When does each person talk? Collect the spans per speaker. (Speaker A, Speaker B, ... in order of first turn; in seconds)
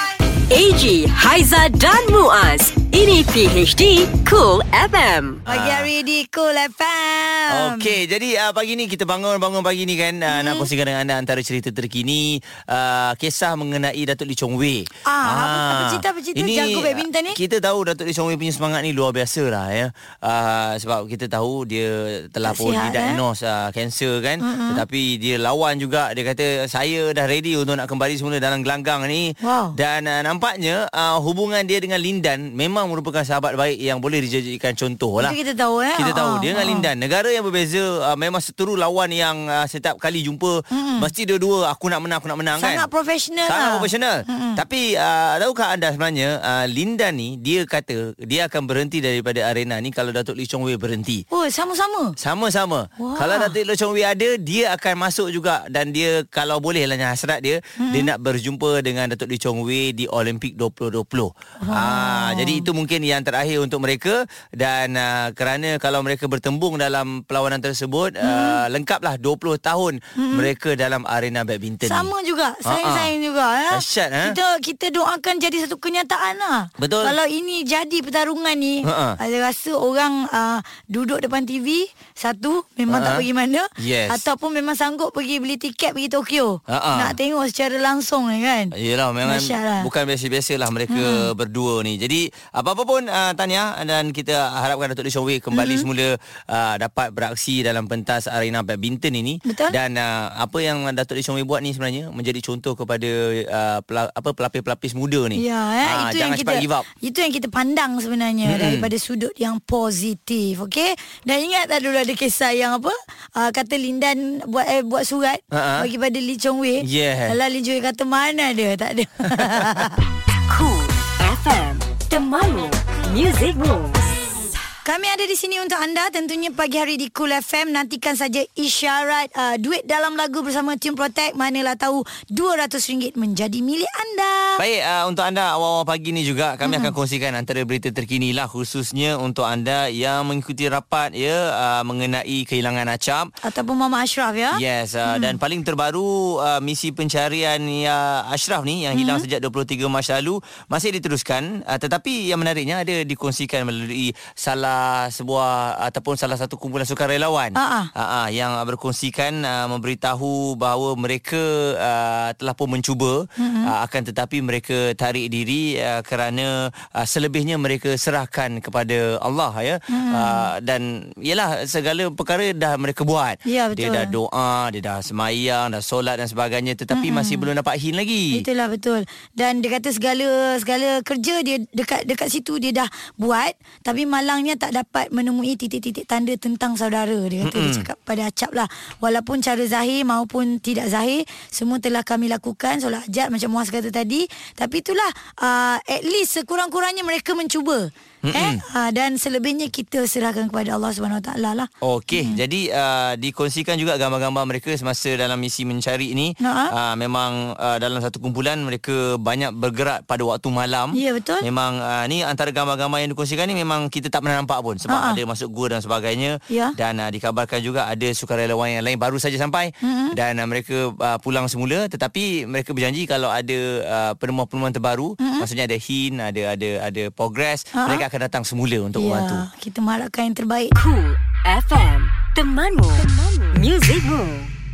Speaker A: 0.5-5.4, 120.5-124.1, 230.7-234.5
Speaker B: 5.5-5.9, 7.5-35.4, 36.0-42.9, 43.5-51.2, 52.2-72.1, 72.7-73.1, 73.7-74.4, 76.8-77.2, 78.8-79.2, 82.9-83.2, 83.8-84.2, 86.7-87.2, 88.7-106.9, 108.5-108.9, 115.5-115.9, 116.8-117.4, 119.4-119.7, 134.6-143.3, 144.5-178.4, 187.4-187.8, 198.2-198.6, 201.8-229.4
Speaker C: 5.5-7.9, 10.3-10.7, 15.1-17.4, 22.4-23.2, 24.4-24.8, 29.4-29.8, 35.2-36.9, 40.7-41.1, 42.6-44.6, 51.3-52.1, 53.0-53.5, 57.8-58.1, 61.6-62.7, 68.2-68.6, 70.2-70.5, 71.9-88.7, 89.2-89.9, 90.9-91.3, 95.5-95.9, 99.5-99.8, 105.4-120.0, 124.8-134.6, 136.6-136.9, 143.4-145.4, 148.9-149.2, 157.6-157.9, 163.4-163.7, 169.9-170.5, 173.4-174.1, 176.9-177.5, 178.3-202.4, 206.4-206.7, 210.9-211.4, 214.9-215.2, 216.5-216.7, 219.8-220.2, 225.2-225.5, 227.8-228.0, 229.0-230.7